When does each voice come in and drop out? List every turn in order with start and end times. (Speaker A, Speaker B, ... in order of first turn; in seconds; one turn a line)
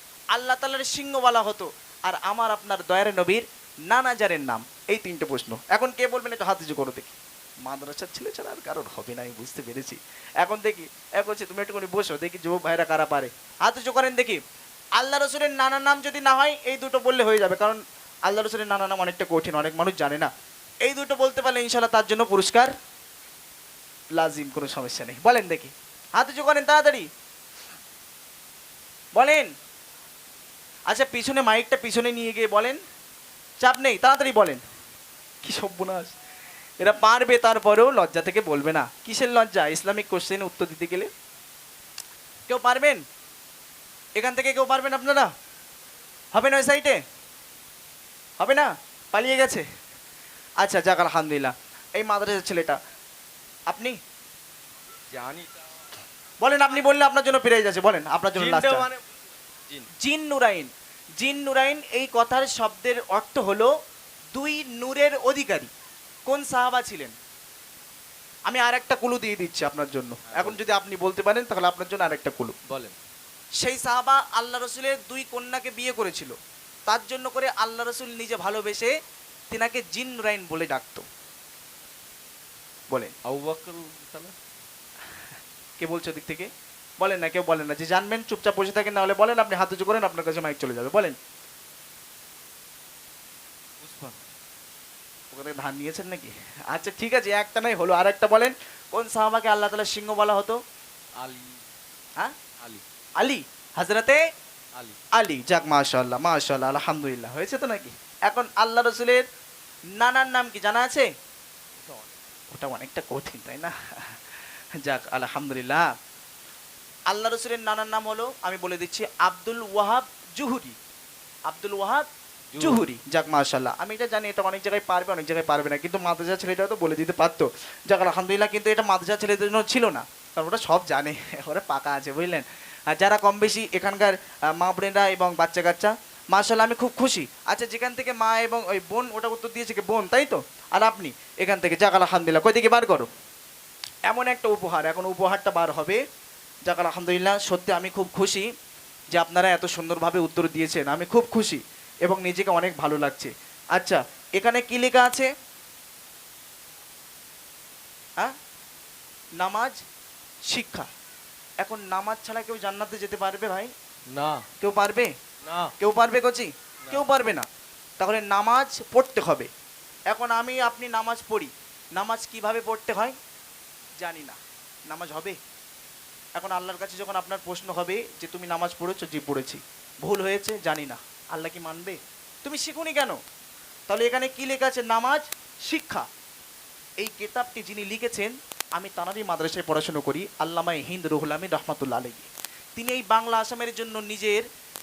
Speaker A: 0.3-14.4
Speaker A: 15.0-20.3
Speaker A: 20.8-22.7
Speaker A: 24.1-27.1
Speaker A: 29.1-29.5
Speaker A: 30.9-32.8
Speaker A: 33.6-34.6
Speaker A: 35.4-36.1
Speaker A: 36.8-41.1
Speaker A: 42.5-43.0
Speaker A: 44.2-45.3
Speaker A: 46.3-47.0
Speaker A: 48.4-49.6
Speaker A: 50.6-52.8
Speaker A: 53.7-54.0
Speaker B: 55.1-55.5
Speaker A: 56.4-58.9
Speaker B: 58.3-59.0
Speaker A: 60.0-63.7
Speaker A: 64.3-65.7
Speaker A: 66.2-67.1
Speaker A: 68.5-72.5
Speaker B: 70.3-70.6
Speaker B: 72.7-73.0
Speaker A: 73.6-76.3
Speaker A: 76.9-78.9
Speaker A: 79.5-81.0
Speaker B: 83.2-84.3
Speaker A: 85.8-91.2
Speaker B: 93.8-94.2
Speaker A: 95.3-100.6
Speaker B: 101.2-101.6
Speaker A: 103.2-104.2
Speaker A: 105.2-109.2
Speaker A: 110.0-111.1
Speaker B: 111.8-112.1
Speaker A: 112.5-114.2
Speaker A: 114.8-115.8
Speaker A: 117.1-120.7
Speaker A: 121.5-122.1
Speaker B: 122.5-122.8
Speaker A: 122.6-143.1
Speaker A: 144.1-146.0
Speaker A: 146.7-148.4
Speaker A: 149.1-155.3
Speaker A: 159.4-159.8
Speaker A: 160.5-160.9
Speaker A: 161.6-163.7
Speaker B: 164.1-164.4
Speaker A: 164.6-165.1
Speaker B: 165.4-165.7
Speaker A: 165.8-167.5
Speaker A: 168.0-169.5
Speaker A: 170.1-173.1
Speaker A: 174.0-175.3
Speaker A: 176.3-183.2
Speaker A: 183.9-186.1
Speaker A: 187.0-194.4